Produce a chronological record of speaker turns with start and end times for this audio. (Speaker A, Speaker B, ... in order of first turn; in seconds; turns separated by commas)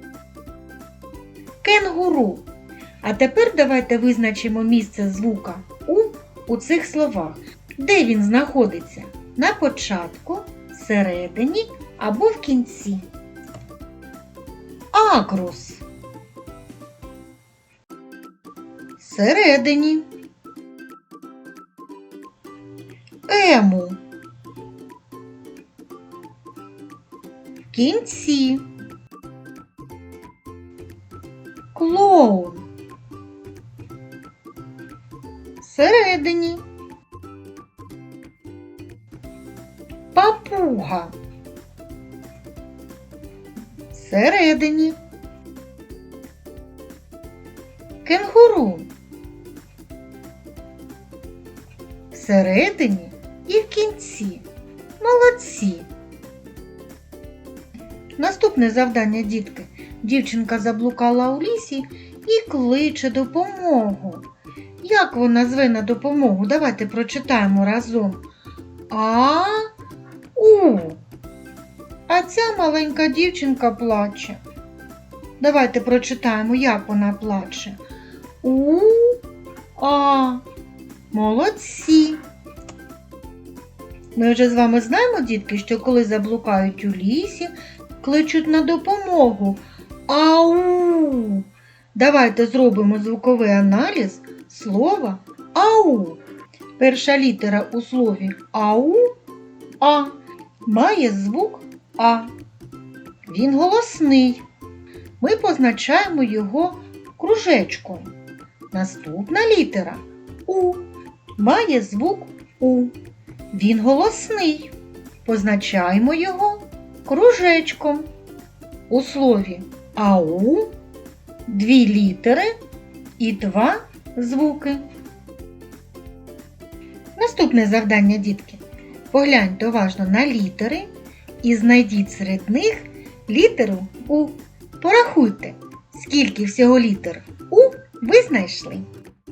Speaker A: 1.6-2.4, Speaker A: 3.0-13.0, Speaker A: 14.9-15.8, Speaker A: 19.0-20.0, Speaker A: 23.3-24.0, Speaker A: 27.7-28.6, Speaker A: 31.7-32.6, Speaker A: 35.6-36.6, Speaker A: 40.1-41.1, Speaker A: 43.9-45.0, Speaker A: 48.0-48.9, Speaker A: 52.1-54.4, Speaker A: 55.0-55.9, Speaker A: 58.2-64.3, Speaker A: 64.8-68.2, Speaker A: 68.9-69.7, Speaker A: 70.3-71.0, Speaker A: 72.1-74.4, Speaker A: 75.4-77.8, Speaker A: 78.4-79.2, Speaker A: 79.8-80.4, Speaker A: 81.1-82.2, Speaker A: 84.1-96.2, Speaker A: 96.8-99.1, Speaker A: 99.8-102.3, Speaker A: 103.3-104.4, Speaker A: 105.2-108.1, Speaker A: 108.7-110.8, Speaker A: 111.4-112.9, Speaker A: 113.5-114.7, Speaker A: 115.2-118.1, Speaker A: 118.9-120.7, Speaker A: 121.5-122.5, Speaker A: 123.2-124.8, Speaker A: 127.2-130.9, Speaker A: 131.4-138.8